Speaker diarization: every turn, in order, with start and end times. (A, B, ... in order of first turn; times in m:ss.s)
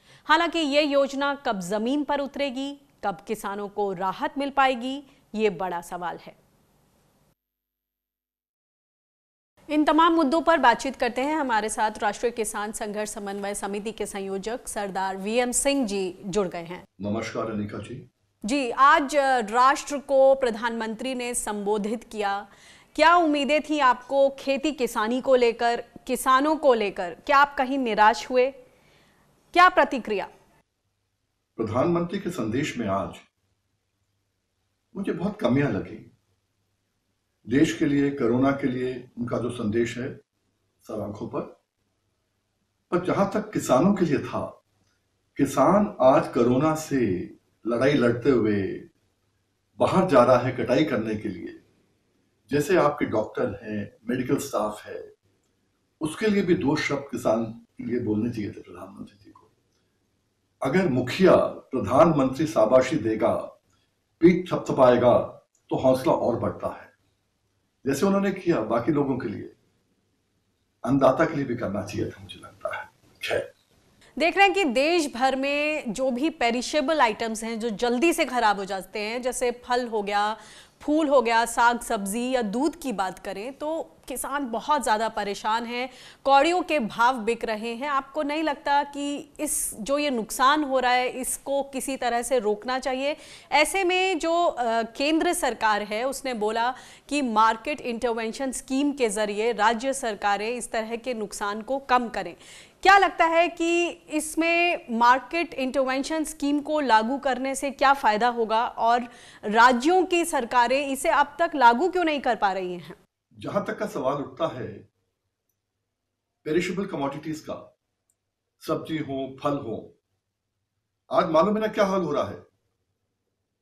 0:00.2-0:06.4 A
0:09.7-0:16.8 A
0:17.0-0:18.0 B
0:18.4-0:28.5 A
0:29.5-0:30.3 A
0:31.6-0:33.2 B
0:34.9-0:36.1 B
0:37.5-0:40.1 B
0:40.8-0:41.5 B
0:42.9-0:44.5 B
0:45.4-0:48.9 B
0:49.8-0:51.6 B
0:52.5-0:55.1 B
0:56.0-0:59.5 B
1:00.6-1:03.5 B
1:04.2-1:06.9 B
1:07.8-1:09.5 B
1:10.8-1:13.5 B
1:14.2-1:53.0 A
1:53.4-1:54.8 B
1:56.4-1:57.6 B
1:58.6-1:59.9 B
2:01.1-2:02.4 B